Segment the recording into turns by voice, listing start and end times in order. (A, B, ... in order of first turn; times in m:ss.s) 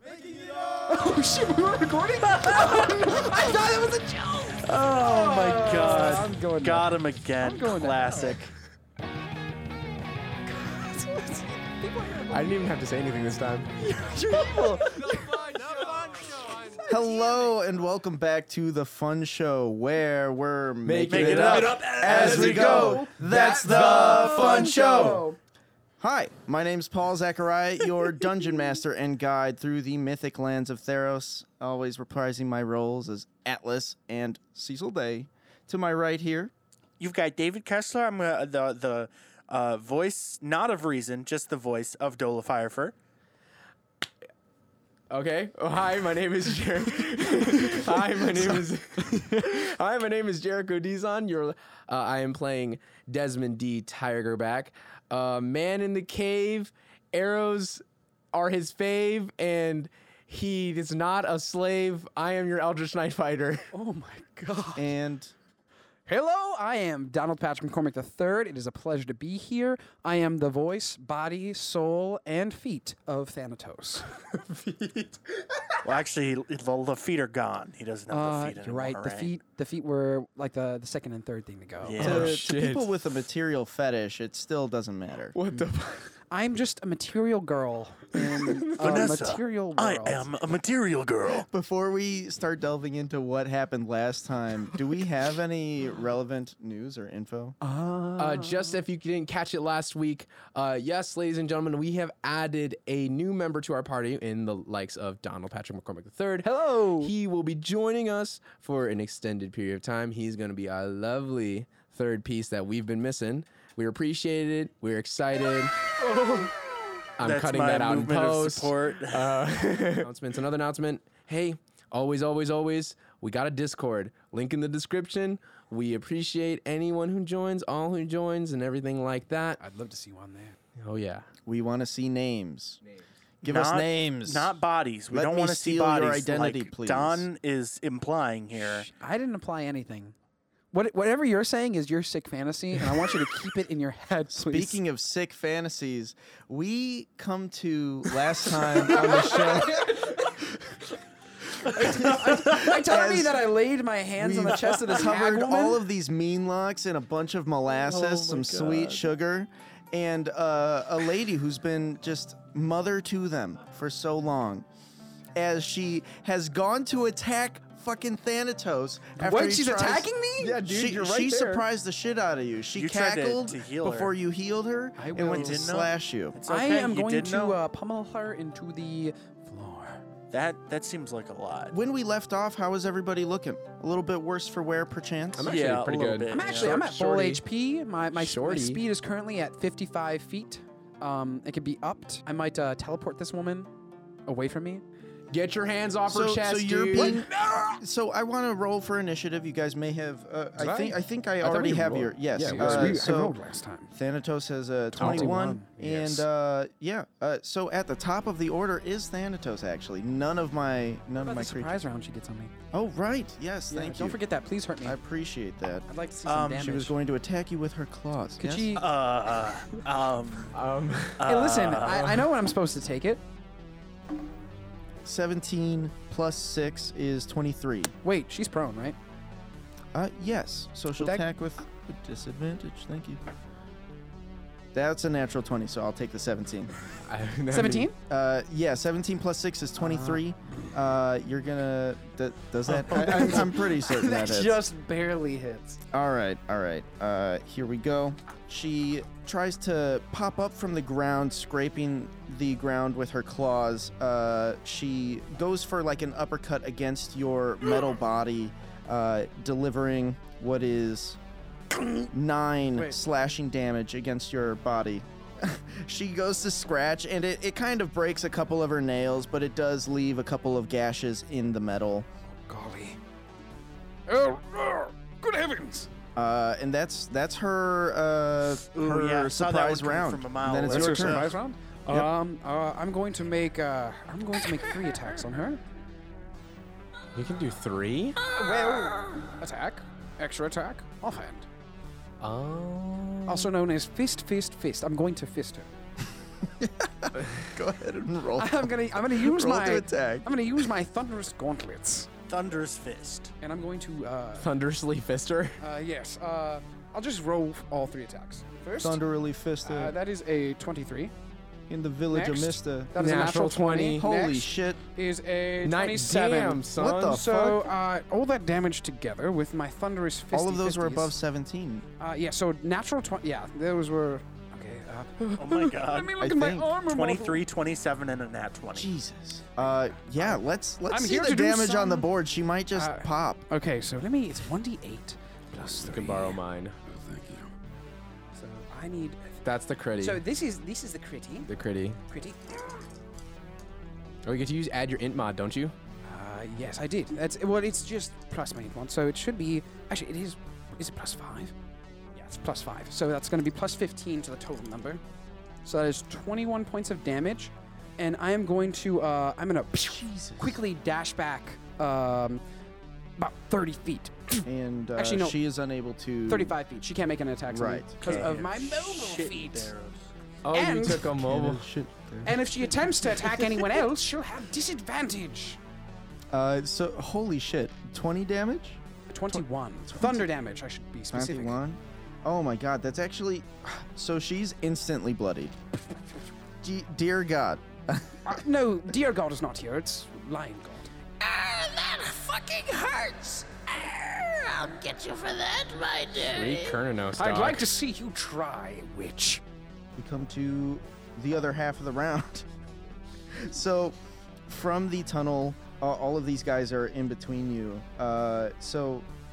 0:00.3-0:00.8 A
0:00.8-0:08.5 B
0:04.6-0:08.5 C
0:04.8-0:06.1 A
0:10.4-0:12.5 B
0:12.3-0:13.7 A
0:13.8-0:17.1 B
0:15.1-0:16.3 A
0:16.9-0:25.2 D
0:20.8-0:25.2 A
0:21.1-0:23.0 C
0:22.1-0:25.4 B
0:26.0-0:36.5 D
0:37.0-0:42.9 C
0:45.1-1:03.7 A
0:47.4-0:48.6 B
0:49.1-0:49.4 B
1:03.7-1:04.9 B
1:04.8-1:05.3 D
1:06.1-1:14.1 B
1:14.3-1:15.8 A
1:15.8-1:19.3 C
1:18.1-1:22.3 B
1:21.8-1:22.4 C
1:22.0-1:22.9 A
1:22.0-1:25.4 D
1:25.3-1:26.1 A
1:26.3-1:30.4 B
1:28.2-1:29.1 A
1:28.7-1:31.5 C
1:31.5-1:37.6 D
1:37.6-1:38.8 B
1:38.2-1:56.4 A
1:46.4-1:47.1 B
1:56.1-1:56.5 B
1:57.2-2:09.6 A
1:57.2-1:59.4 C
2:09.6-2:10.6 B
2:10.8-2:11.3 A
2:11.4-2:12.8 D
2:13.4-2:14.5 D
2:13.4-2:18.9 C
2:15.1-2:17.3 D
2:18.5-2:20.1 B
2:20.7-2:24.8 B
2:24.3-2:30.0 D
2:28.8-2:30.8 B
2:31.5-2:35.8 B
2:32.0-2:33.5 D
2:34.2-2:44.6 D
2:37.8-2:39.0 C
2:45.3-2:50.1 D
2:49.2-2:50.6 B
2:50.4-2:51.6 A
2:50.6-2:56.4 D
2:52.7-2:54.1 C
2:55.0-2:55.6 B
2:55.1-2:57.6 C
2:56.5-3:00.0 B
3:00.3-3:01.8 C
3:01.7-3:05.6 D
3:05.4-3:07.4 A
3:05.4-3:06.8 C
3:06.3-3:13.7 B
3:08.1-3:08.8 A
3:14.3-3:14.8 B
3:15.3-3:17.2 A
3:16.0-3:23.3 D
3:17.0-3:17.8 B
3:20.6-3:23.0 A
3:22.4-3:23.9 B
3:23.9-3:31.8 D
3:24.9-3:25.7 B
3:25.0-3:26.2 A
3:31.2-3:32.5 B
3:32.7-3:34.2 D
3:33.7-3:35.0 B
3:34.8-3:35.9 D
3:35.9-3:37.0 B
3:36.2-3:36.6 C
3:36.5-3:38.7 D
3:38.4-3:38.9 B
3:38.7-3:40.5 C
3:40.5-3:42.3 A
3:41.2-3:42.1 C
3:41.2-3:43.2 B
3:45.0-3:47.9 D
3:48.0-3:49.0 B
3:49.9-3:53.2 D
3:51.0-3:51.2 B
3:54.7-3:56.7 D
3:57.0-3:57.9 A
3:57.5-3:58.0 B
3:58.1-4:04.6 D
3:59.8-4:00.2 B
4:02.7-4:05.8 B
4:05.9-4:21.2 D
4:21.7-4:22.1 B
4:22.1-4:32.1 D
4:22.7-4:23.0 B
4:32.4-4:33.0 B
4:34.1-4:35.9 B
4:36.2-4:41.3 D
4:38.7-4:41.4 C
4:40.6-4:45.6 B
4:47.1-4:48.2 A
4:48.2-4:49.3 E
4:48.3-4:51.5 B
4:52.2-4:53.5 A
4:53.2-4:55.7 B
4:56.4-5:00.3 D
4:58.4-5:02.1 B
5:02.3-5:03.3 C
5:03.4-5:04.5 B
5:04.4-5:05.6 A
5:05.6-5:09.0 B
5:08.8-5:10.0 D
5:09.6-5:11.1 B
5:11.7-5:12.9 D
5:12.1-5:21.1 B
5:13.0-5:14.0 A
5:14.0-5:14.8 D
5:15.6-5:17.2 A
5:16.8-5:17.7 D
5:20.3-5:21.8 D
5:22.0-5:27.4 B
5:25.4-5:26.2 C
5:26.2-5:26.7 D
5:26.8-5:28.9 C
5:28.7-5:33.4 D
5:30.2-5:32.1 B
5:32.7-5:37.5 B
5:35.8-5:36.8 A
5:38.4-5:39.4 B
5:39.4-5:40.2 A
5:40.0-5:41.5 B
5:41.5-5:42.0 A
5:42.1-5:42.6 B
5:44.2-5:45.7 A
5:46.0-5:51.5 B
5:52.1-5:55.0 B
5:55.6-6:02.4 B
5:59.8-6:00.6 D
6:03.2-6:05.4 B
6:04.4-6:06.6 D
6:06.3-6:09.7 B
6:07.5-6:08.3 D
6:08.0-6:10.1 C
6:10.4-6:11.7 A
6:10.5-6:11.1 B
6:11.2-6:13.5 D
6:12.2-6:15.6 B
6:16.3-6:18.8 D
6:19.1-6:21.6 B
6:19.9-6:20.3 D
6:21.1-6:25.5 D
6:26.6-6:28.4 D
6:28.2-6:30.9 B
6:31.2-6:36.8 E
6:36.2-6:37.7 A
6:37.2-6:39.4 B
6:40.0-6:42.5 D
6:43.3-6:44.0 D
6:44.5-6:49.1 D